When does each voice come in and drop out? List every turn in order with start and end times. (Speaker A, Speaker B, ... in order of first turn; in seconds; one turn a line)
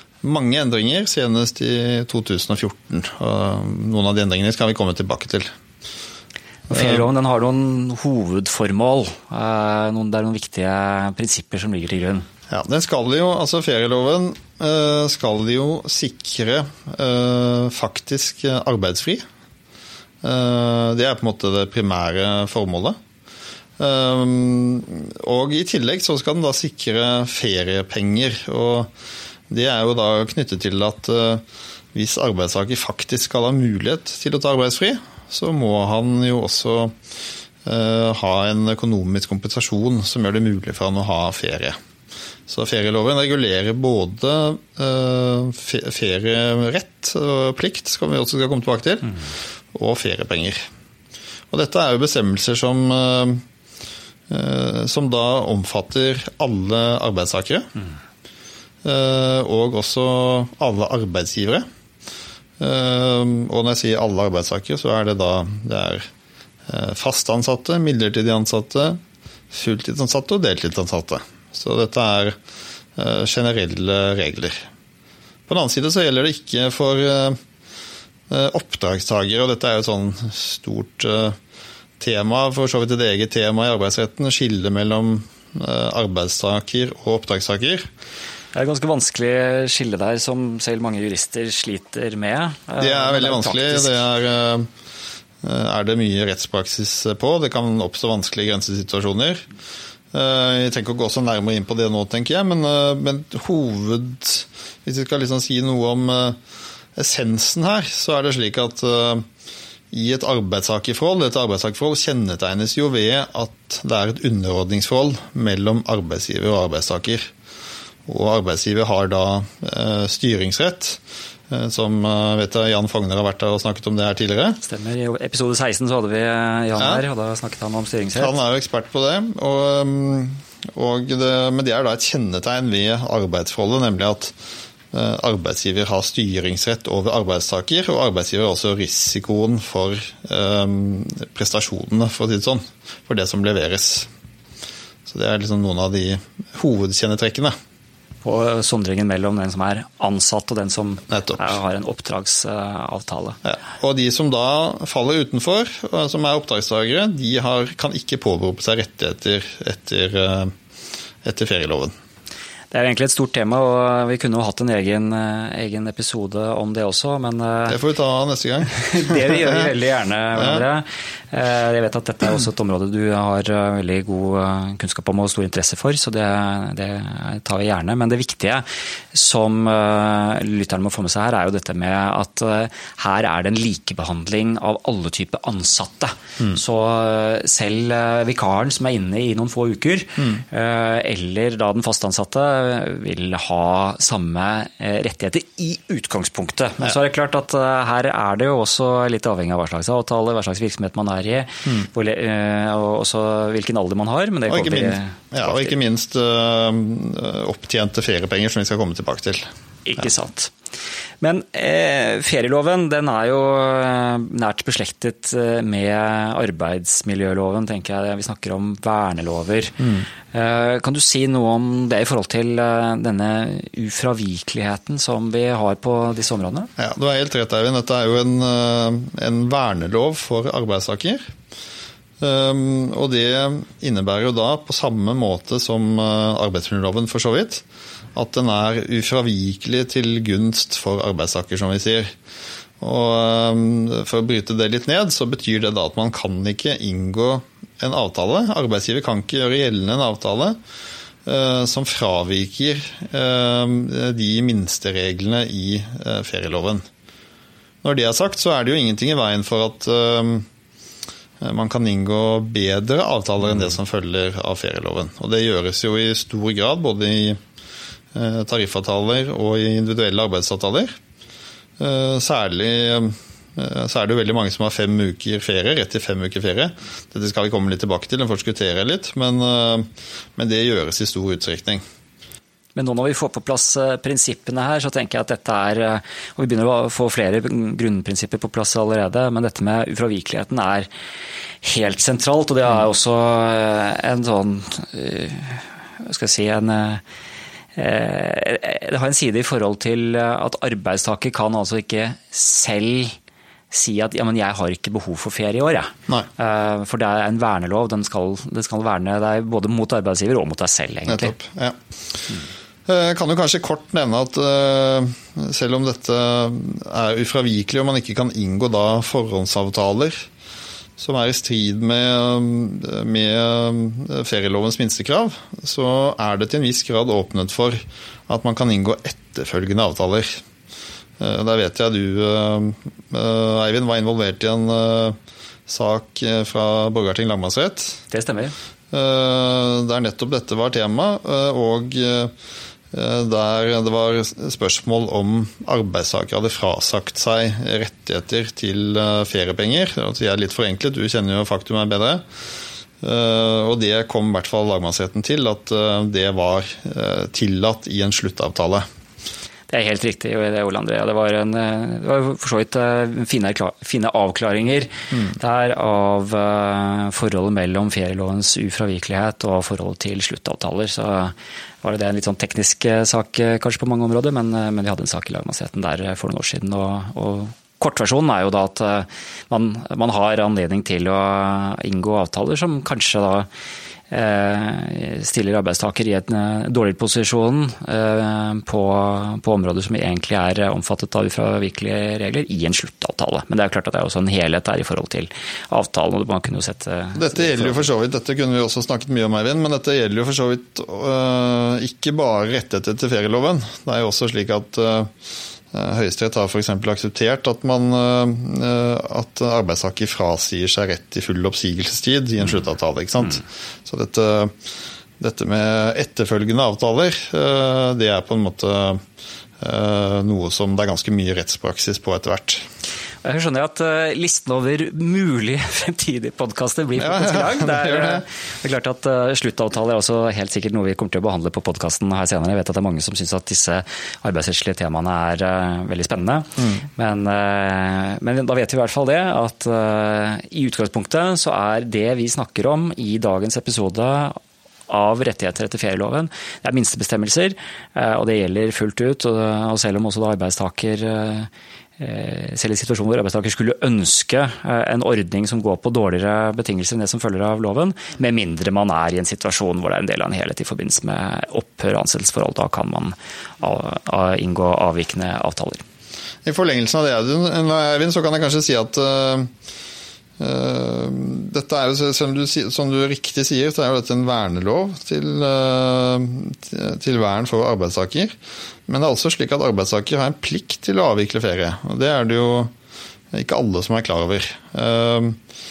Speaker A: 0.2-5.5
Speaker B: 6.7-12.3
Speaker A: 6.7-7.1
Speaker A: 12.5-19.2
Speaker A: 20.2-23.0
Speaker A: 23.8-28.9
Speaker A: 29.5-37.0
Speaker A: 37.6-41.8
Speaker A: 42.5-49.2
Speaker A: 49.7-50.7
Speaker A: 51.5-53.4
Speaker A: 54.3-57.7
Speaker A: 58.8-61.7
Speaker A: 62.6-66.1
Speaker A: 66.7-69.0
Speaker A: 69.5-72.4
Speaker A: 73.0-74.7
Speaker A: 75.5-77.4
Speaker A: 78.3-81.4
Speaker A: 82.0-87.9
Speaker B: 88.5-94.0
Speaker A: 92.8-94.7
Speaker A: 95.4-99.5
Speaker A: 100.1-106.4
Speaker A: 107.0-109.3
Speaker A: 109.9-117.3
Speaker A: 118.1-124.6
Speaker B: 124.6-128.4
Speaker A: 126.8-127.0
Speaker A: 128.2-134.3
Speaker A: 134.9-144.1
Speaker A: 145.1-147.6
Speaker B: 148.2-153.4
Speaker A: 151.1-151.5
Speaker A: 153.4-160.5
Speaker A: 161.2-161.9
Speaker B: 162.7-167.8
Speaker A: 167.7-169.7
Speaker B: 168.7-205.7
Speaker A: 170.4-170.6
Speaker A: 204.5-209.5
Speaker B: 209.9-210.5
Speaker B: 211.2-226.7
Speaker A: 226.8-231.3
Speaker A: 232.2-242.2
Speaker A: 242.8-250.6
Speaker A: 251.2-256.8
Speaker A: 257.8-260.5
Speaker A: 261.4-267.4
Speaker A: 268.1-271.0
Speaker A: 271.8-281.8
Speaker B: 282.8-290.9
Speaker B: 291.6-297.0
Speaker B: 297.8-303.2
Speaker B: 303.7-311.3
Speaker A: 311.1-311.8
Speaker A: 312.9-320.3
Speaker A: 321.0-330.4
Speaker A: 331.2-338.0
Speaker B: 338.1-338.6
Speaker A: 338.9-342.3
Speaker A: 342.9-352.2
Speaker A: 353.0-358.9
Speaker B: 359.7-383.5
Speaker B: 384.1-397.9
Speaker A: 397.1-405.1
Speaker A: 405.7-414.6
Speaker A: 415.2-419.0
Speaker A: 419.6-422.7
Speaker B: 423.2-465.8
Speaker A: 427.0-428.2
Speaker A: 436.6-436.8
Speaker A: 466.4-469.5
Speaker A: 470.4-478.4
Speaker A: 478.9-482.7
Speaker A: 483.3-485.4